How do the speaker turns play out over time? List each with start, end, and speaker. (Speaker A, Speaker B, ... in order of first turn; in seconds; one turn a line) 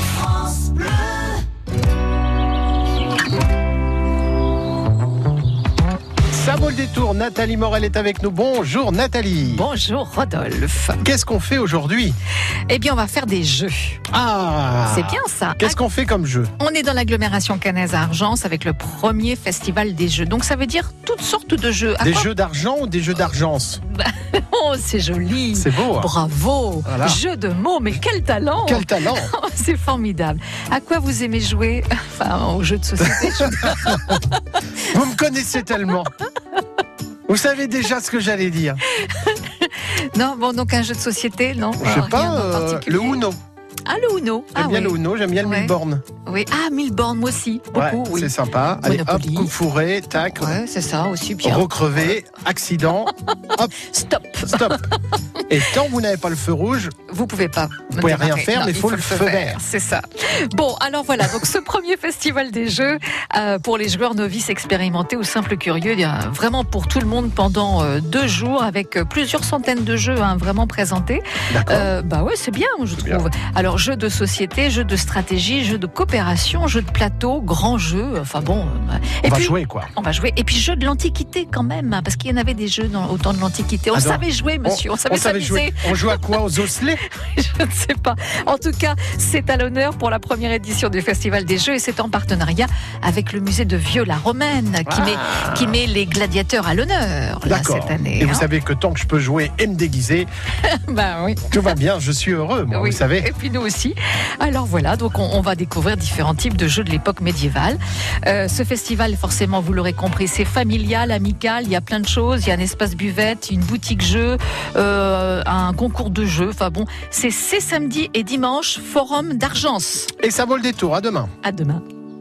Speaker A: 6.3-9.7
Speaker B: 9.5-11.0
Speaker A: 11.0-12.2
Speaker B: 12.7-14.0
Speaker A: 14.1-16.5
Speaker B: 14.9-15.8
Speaker B: 16.6-22.3
Speaker A: 22.0-23.8
Speaker B: 23.8-34.4
Speaker A: 25.5-26.1
Speaker A: 26.9-27.2
Speaker A: 28.6-29.3
Speaker A: 33.2-34.2
Speaker A: 34.8-36.1
Speaker A: 37.3-38.8
Speaker B: 38.9-43.2
Speaker A: 41.8-43.4
Speaker B: 43.9-45.7
Speaker A: 44.5-46.0
Speaker B: 46.2-49.5
Speaker A: 47.7-50.5
Speaker B: 50.1-51.7
Speaker A: 51.4-53.7
Speaker B: 53.8-55.4
Speaker A: 54.4-54.8
Speaker A: 55.5-56.9
Speaker B: 57.1-98.5
Speaker A: 57.9-59.6
Speaker A: 71.5-71.9
Speaker A: 73.0-73.2
Speaker A: 79.2-79.9
Speaker A: 83.9-87.0
Speaker A: 94.8-95.8
Speaker A: 97.5-100.3
Speaker B: 100.6-101.8
Speaker A: 101.5-103.3
Speaker B: 102.7-120.1
Speaker A: 120.2-121.3
Speaker B: 121.4-121.8